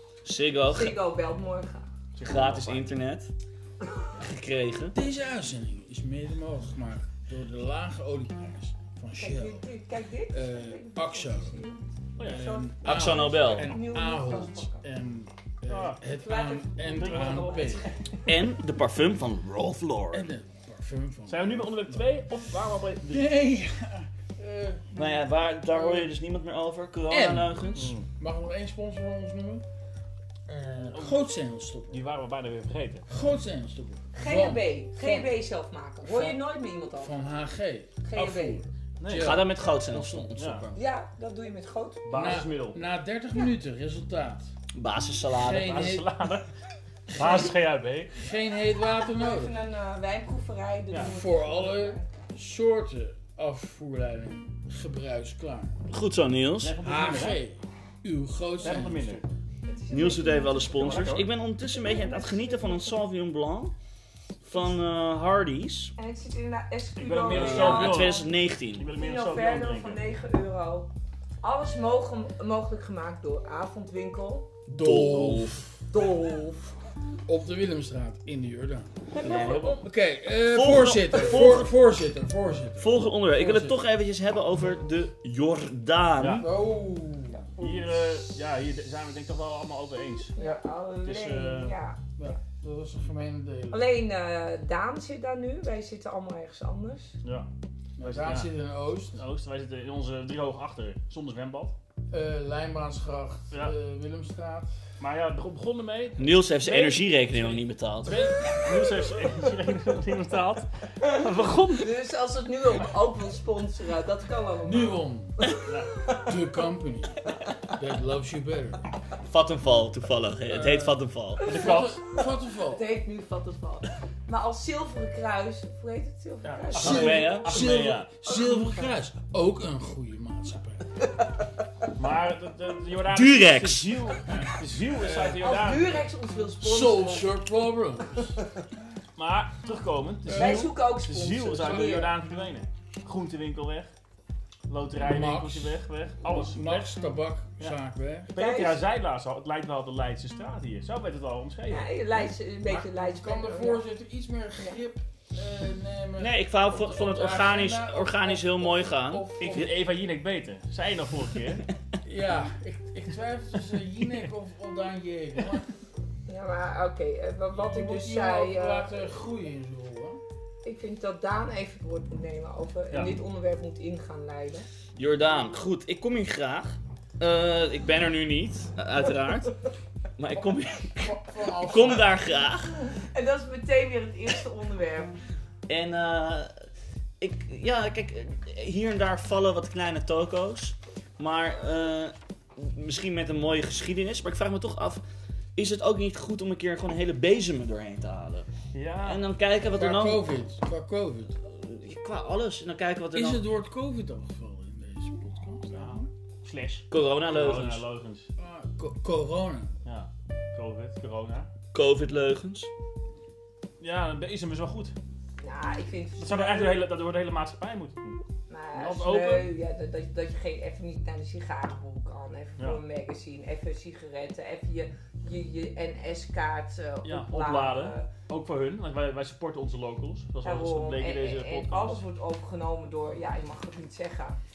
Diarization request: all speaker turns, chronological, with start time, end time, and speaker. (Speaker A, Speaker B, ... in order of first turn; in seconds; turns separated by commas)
Speaker A: 0.2-1.0, Speaker B: 0.7-1.9, Speaker C: 2.1-2.9, Speaker A: 2.2-3.3, Speaker A: 4.1-5.0, Speaker D: 4.9-9.7, Speaker B: 9.2-14.8, Speaker D: 10.3-11.6, Speaker C: 12.2-12.6, Speaker D: 12.2-17.8, Speaker A: 12.8-13.8, Speaker C: 15.7-16.0, Speaker B: 16.2-18.0, Speaker C: 16.9-17.9, Speaker A: 18.2-20.3, Speaker D: 20.1-22.1, Speaker C: 21.3-23.3, Speaker D: 23.0-26.1, Speaker A: 24.9-27.9, Speaker D: 27.1-29.6, Speaker C: 27.7-28.1, Speaker D: 30.5-32.0, Speaker C: 30.9-31.2, Speaker C: 31.9-33.0, Speaker D: 33.1-35.3, Speaker B: 34.1-37.3, Speaker D: 36.0-36.4, Speaker D: 37.0-40.3, Speaker B: 38.0-38.6, Speaker C: 39.0-39.4, Speaker A: 39.1-40.8, Speaker C: 40.4-40.6, Speaker B: 40.7-42.3, Speaker C: 42.0-42.8, Speaker D: 42.1-44.5, Speaker A: 44.7-45.9, Speaker D: 45.3-46.1, Speaker C: 45.6-46.5, Speaker C: 47.1-48.1, Speaker D: 47.1-47.5, Speaker D: 48.1-49.5, Speaker B: 49.0-52.1, Speaker D: 51.0-55.8, Speaker A: 55.9-56.8, Speaker C: 56.6-57.4, Speaker D: 56.8-59.2, Speaker C: 58.6-59.2, Speaker B: 59.6-61.1, Speaker A: 59.9-63.7, Speaker C: 60.7-61.3, Speaker B: 61.7-63.0, Speaker A: 64.4-65.9, Speaker B: 66.0-68.3, Speaker C: 67.0-70.0, Speaker A: 67.3-68.9, Speaker B: 68.9-70.9, Speaker B: 71.4-74.5, Speaker D: 74.7-75.7, Speaker A: 74.8-75.7, Speaker B: 75.9-76.7, Speaker D: 77.3-79.0, Speaker B: 79.1-79.8, Speaker A: 79.2-79.8, Speaker C: 79.2-79.8, Speaker D: 79.7-83.8, Speaker A: 80.5-81.7, Speaker A: 82.8-86.5, Speaker C: 86.2-86.5, Speaker D: 86.3-87.7, Speaker B: 87.3-87.6, Speaker C: 87.6-90.3, Speaker B: 90.3-92.4, Speaker C: 91.0-91.7, Speaker D: 92.2-93.8, Speaker B: 93.7-97.1, Speaker C: 97.2-97.5, Speaker D: 98.0-99.2, Speaker C: 98.0-98.5, Speaker C: 99.1-101.7, Speaker D: 102.1-104.7, Speaker C: 105.0-111.9, Speaker A: 106.2-108.3, Speaker B: 111.7-116.3, Speaker D: 114.6-115.4, Speaker C: 115.6-115.9, Speaker D: 116.2-118.8, Speaker A: 119.2-121.5, Speaker D: 120.5-122.8, Speaker C: 121.4-122.0, Speaker B: 121.6-127.3, Speaker C: 126.4-128.1, Speaker D: 126.8-130.9, Speaker A: 126.8-127.8, Speaker B: 128.2-128.8, Speaker C: 131.9-136.0, Speaker A: 133.1-133.9, Speaker D: 134.3-135.4, Speaker B: 135.4-137.3, Speaker D: 136.6-138.4, Speaker C: 139.2-143.9, Speaker D: 140.2-140.8, Speaker B: 140.3-142.1, Speaker D: 141.5-142.1, Speaker C: 144.7-146.8, Speaker D: 145.0-148.3, Speaker C: 148.3-151.9, Speaker B: 148.3-148.8, Speaker B: 151.7-153.8, Speaker D: 152.7-159.7, Speaker A: 156.2-159.6, Speaker C: 159.4-161.6, Speaker D: 162.0-165.7, Speaker B: 166.3-168.9, Speaker D: 167.6-170.2, Speaker B: 170.6-174.7, Speaker C: 172.9-173.2, Speaker A: 174.9-179.6, Speaker A: 180.2-182.8, Speaker D: 181.0-182.2, Speaker B: 182.9-185.1, Speaker A: 185.7-186.5, Speaker A: 187.2-195.0, Speaker A: 195.6-198.5, Speaker C: 198.7-199.2, Speaker A: 199.0-200.3, Speaker D: 199.7-201.4, Speaker A: 201.5-203.4, Speaker D: 203.1-206.1, Speaker C: 205.7-208.3, Speaker A: 206.9-207.8, Speaker D: 208.4-209.7, Speaker C: 209.8-211.5, Speaker A: 211.7-212.7, Speaker C: 213.8-214.9, Speaker B: 215.4-216.8, Speaker C: 216.2-218.2, Speaker B: 218.5-228.1, Speaker C: 218.7-219.5, Speaker C: 227.0-232.0, Speaker B: 230.4-234.4